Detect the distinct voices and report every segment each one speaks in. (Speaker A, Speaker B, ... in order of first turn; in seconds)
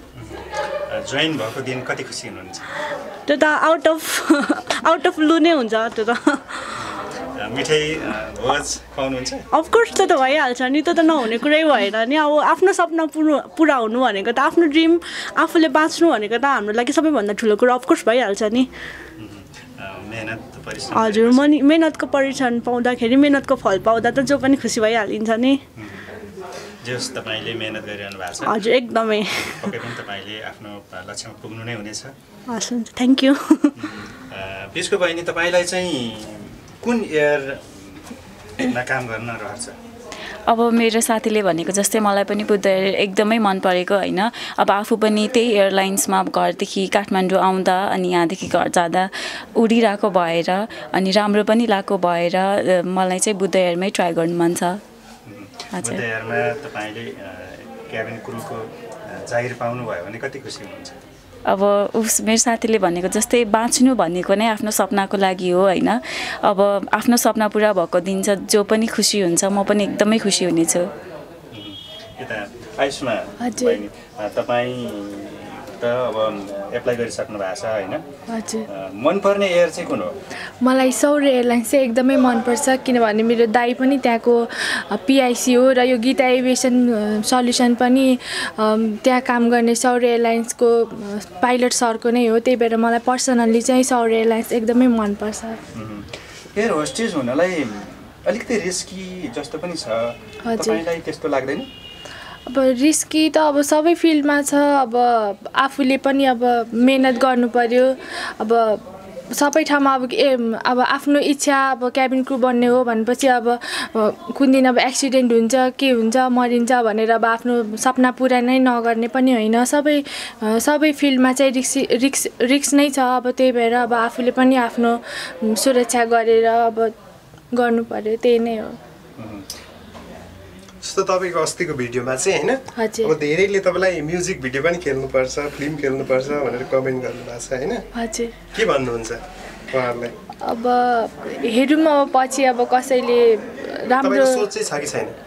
Speaker A: 0.1-2.7, 6.8-9.4, 19.2-21.6, 25.8-26.1, 26.8-28.6, 29.5-32.1, 33.8-39.8, 55.2-61.0, 71.5-78.0, 78.7-80.1, 95.7-101.7, 129.2-129.4
Speaker B: 3.3-6.9, 9.5-18.7, 20.9-25.6, 28.4-29.8, 32.5-33.9
Speaker C: 40.5-54.8, 55.7-56.0, 61.5-70.8
Speaker D: 73.4-73.8, 78.3-78.7, 80.6-95.6, 100.4-100.8, 102.5-108.8, 109.3-126.9, 127.5-128.8, 132.8-133.1, 138.0-138.3, 140.4-144.5
Speaker E: 130.8-137.8, 138.5-139.2, 139.7-140.1, 144.0-145.1